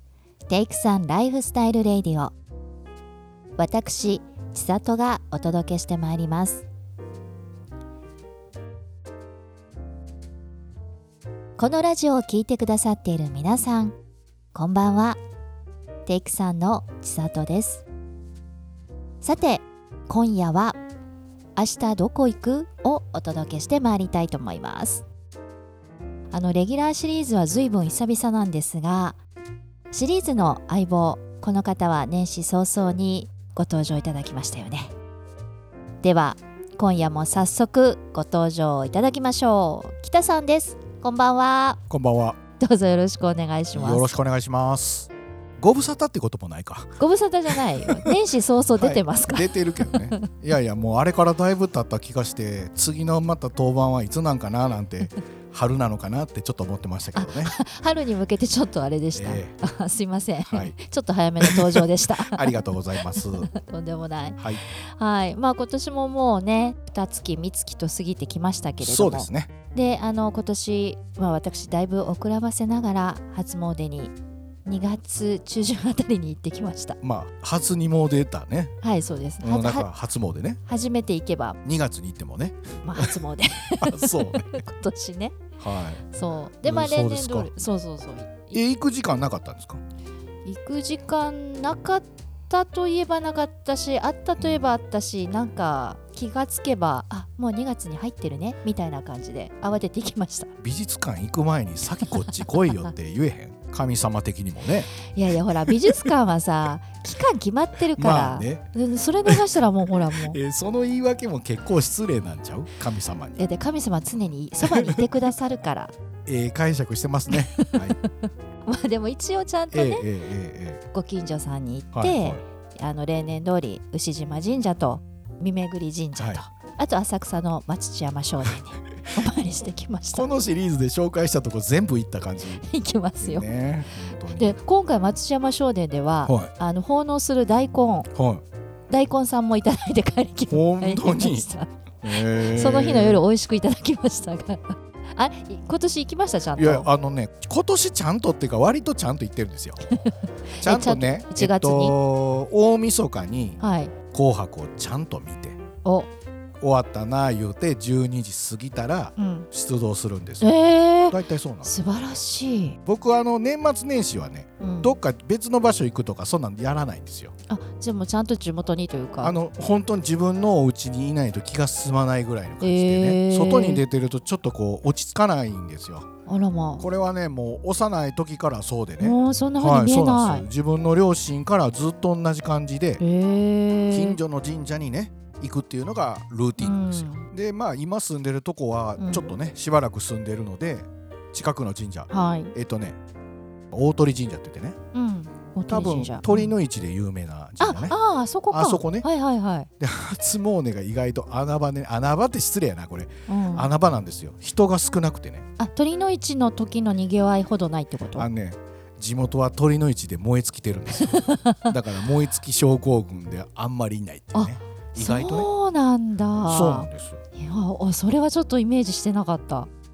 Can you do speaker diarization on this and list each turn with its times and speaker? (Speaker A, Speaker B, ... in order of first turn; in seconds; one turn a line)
Speaker A: 0.5-2.3
Speaker A: 3.6-6.7
Speaker A: 11.6-14.0
Speaker A: 14.5-15.2
Speaker A: 16.1-17.9
Speaker A: 19.2-20.8
Speaker A: 21.6-25.0
Speaker A: 26.3-29.2
Speaker A: 29.9-34.9
Speaker A: 36.0-41.8
Speaker B: 41.9-42.4
Speaker A: 42.6-44.1
Speaker B: 43.7-46.9
Speaker A: 47.0-50.3
Speaker B: 47.5-48.1
Speaker B: 48.8-57.5
Speaker A: 57.1-74.1
Speaker B: 59.1-59.5
Speaker B: 60.5-60.7
Speaker B: 61.4-63.5
Speaker B: 68.8-69.5
Speaker A: 74.7-77.0
Speaker B: 77.0-78.7
Speaker A: 78.8-79.9
Speaker B: 79.4-80.6
Speaker A: 80.7-81.6
Speaker B: 81.6-83.2
Speaker A: 82.8-85.4
Speaker B: 83.8-84.6
Speaker B: 85.6-86.0
Speaker A: 86.0-88.6
Speaker B: 86.6-87.5
Speaker B: 88.5-89.8
Speaker A: 90.5-100.5
Speaker B: 94.4-94.7
Speaker B: 100.6-105.0
Speaker A: 102.0-102.9
Speaker A: 105.0-110.4
Speaker B: 105.7-106.1
Speaker B: 107.9-108.6
Speaker B: 110.1-113.5
Speaker A: 113.3-115.9
Speaker B: 114.6-115.0
Speaker B: 116.3-118.0
Speaker A: 117.3-120.0
Speaker B: 119.7-120.8
Speaker A: 120.9-130.3
Speaker B: 121.9-122.4
Speaker B: 126.2-126.4
Speaker B: 130.1-132.6
Speaker A: 132.5-133.5
Speaker B: 133.2-134.6
Speaker A: 134.3-138.1
Speaker B: 138.1-138.4
Speaker A: 138.9-146.9
Speaker B: 140.5-141.5
Speaker B: 142.0-143.2
Speaker B: 146.6-149.9
Speaker A: 149.9-151.9
Speaker B: 150.6-153.6
Speaker A: 153.6-153.9
Speaker B: 154.1-155.6
Speaker A: 155.8-156.1
Speaker B: 156.6-160.5
Speaker A: 159.2-159.5
Speaker A: 160.4-162.8
Speaker B: 161.1-162.2
Speaker B: 162.8-167.3
Speaker A: 164.6-165.0
Speaker A: 167.5-169.3
Speaker B: 169.2-176.1
Speaker A: 172.6-173.8
Speaker A: 176.3-176.8
Speaker B: 176.8-183.0
Speaker A: 179.0-180.4
Speaker A: 183.0-184.2
Speaker B: 183.9-193.0
Speaker A: 186.6-187.3
Speaker A: 189.0-189.3
Speaker A: 192.1-192.5
Speaker B: 193.7-194.8
Speaker A: 194.9-196.5
Speaker B: 195.7-197.9
Speaker A: 197.6-199.7
Speaker B: 198.5-199.1
Speaker B: 199.8-205.4
Speaker A: 203.3-203.7
Speaker A: 205.6-208.3
Speaker B: 208.1-215.5
Speaker A: 210.9-211.8
Speaker A: 214.3-219.7
Speaker B: 216.4-217.2